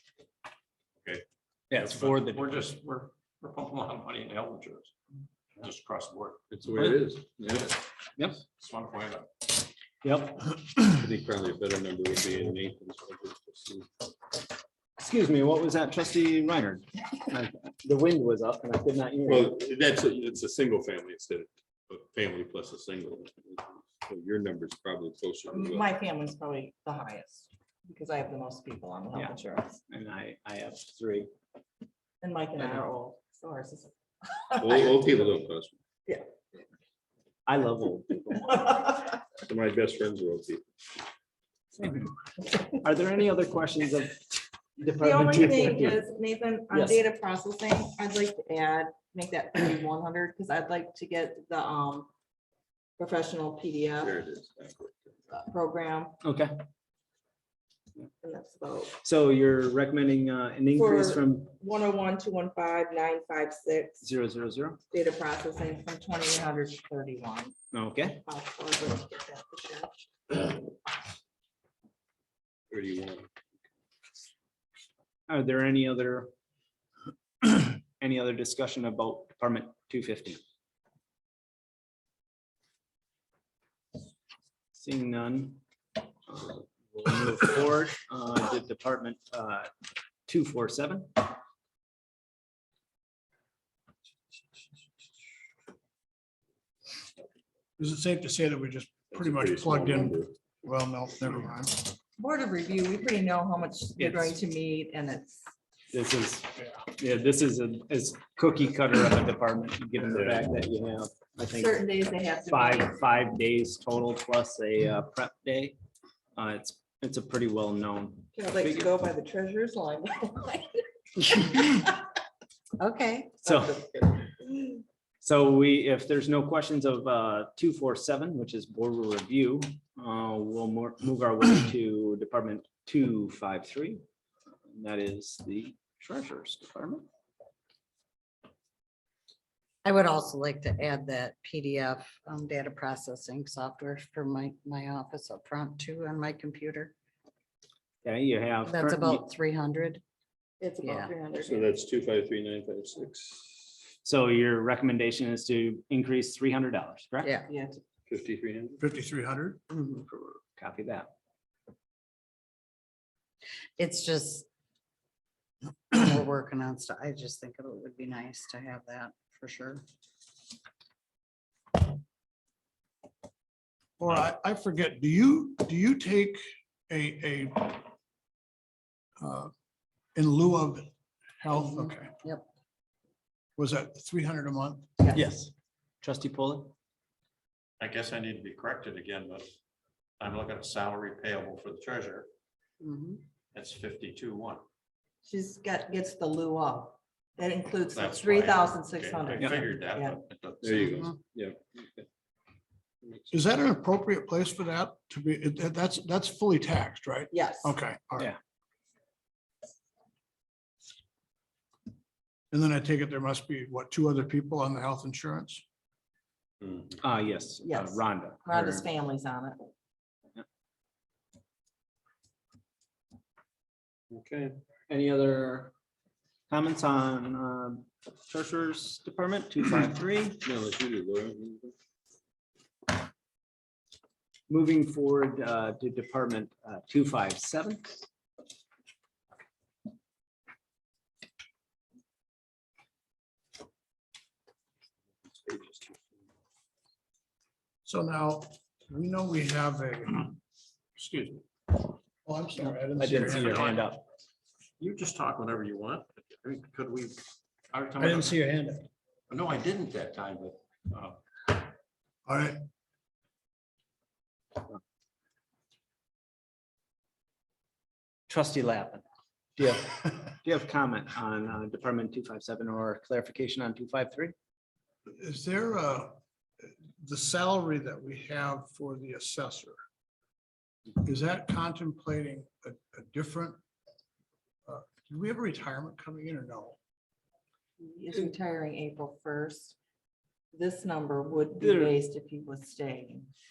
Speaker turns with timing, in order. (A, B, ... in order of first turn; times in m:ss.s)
0:01.0-0:04.9 A
0:01.7-0:02.7 B
0:05.6-0:06.5 A
0:06.5-0:07.8 C
0:06.7-0:07.0 B
0:08.4-0:09.3 A
0:10.0-0:10.6 B
0:10.8-0:13.9 C
0:15.0-0:19.5 B
0:19.2-0:25.9 C
0:25.5-0:29.8 D
0:29.9-0:31.3 B
0:32.2-0:34.9 D
0:34.6-0:35.8 C
0:37.4-0:38.8 B
0:39.4-0:40.6 C
0:41.8-0:46.0 B
0:44.9-0:52.1 D
0:46.7-0:47.0 B
0:53.0-0:54.2 D
0:54.0-0:55.1 C
0:55.3-0:56.2 D
0:56.2-0:56.5 B
0:58.2-0:59.0 D
0:59.0-1:01.5 B
1:00.8-1:04.0 D
1:04.0-1:04.8 B
1:04.9-1:07.5 D
1:07.7-1:08.2 B
1:08.2-1:10.6 D
1:12.7-1:13.3 C
1:15.3-1:16.3 B
1:17.4-1:20.4 B
1:24.7-1:25.6 B
1:26.3-1:29.7 B
1:30.3-1:31.3 B
1:37.8-1:41.9 E
1:39.1-1:40.3 C
1:42.2-1:45.5 D
1:44.0-1:44.3 B
1:45.9-1:51.8 B
1:50.0-1:50.5 C
1:51.5-1:52.9 D
1:52.5-1:55.8 B
1:56.4-1:58.9 B
1:58.3-2:01.9 D
2:02.8-2:03.4 F
2:03.4-2:03.8 B
2:03.5-2:04.8 D
2:05.2-2:14.0 B
2:14.7-2:17.0 B
2:19.8-2:26.9 F
2:28.0-2:29.2 B
2:28.6-2:30.0 F
2:30.6-2:31.7 D
2:30.8-2:31.1 F
2:31.4-2:33.7 C
2:34.0-2:37.3 B
2:37.2-2:37.5 F
2:37.5-2:37.8 D
2:38.1-2:38.8 C
2:38.8-2:39.6 E
2:39.7-2:40.0 F
2:40.1-2:41.1 B
2:43.8-2:44.5 F
2:45.9-2:49.8 F
2:54.0-2:57.9 E
2:59.2-2:59.5 E
3:00.1-3:02.1 E
3:01.5-3:02.4 F
3:03.6-3:04.9 E
3:05.1-3:05.5 B
3:06.0-3:06.7 B
3:07.8-3:09.5 A
3:10.2-3:12.3 A
3:12.8-3:13.2 F
3:13.5-3:14.6 A
3:15.2-3:20.2 D
3:17.9-3:21.0 A
3:20.6-3:22.0 C
3:23.0-3:23.3 C
3:23.3-3:28.3 E
3:27.3-3:27.8 D
3:32.5-3:35.6 E
3:36.6-3:36.9 C
3:37.0-3:38.8 B
3:37.6-3:39.7 D
3:44.1-3:44.6 C
3:44.9-3:45.7 B
3:46.5-3:50.4 B
3:50.4-3:51.7 C
3:54.5-3:58.0 B
4:05.5-4:05.8 C
4:07.8-4:10.4 E
4:11.0-4:11.4 A
4:12.2-4:13.8 E
4:12.6-4:14.0 B
4:13.3-4:13.8 A
4:14.8-4:18.4 A
4:18.0-4:18.9 E
4:19.3-4:21.6 A
4:22.2-4:22.6 E
4:28.3-4:29.0 B
4:29.6-4:34.3 B
4:35.1-4:39.8 E
4:41.0-4:43.6 E
4:44.7-4:46.8 E
4:47.8-4:49.8 D
4:50.5-4:53.3 D
4:51.6-4:51.9 B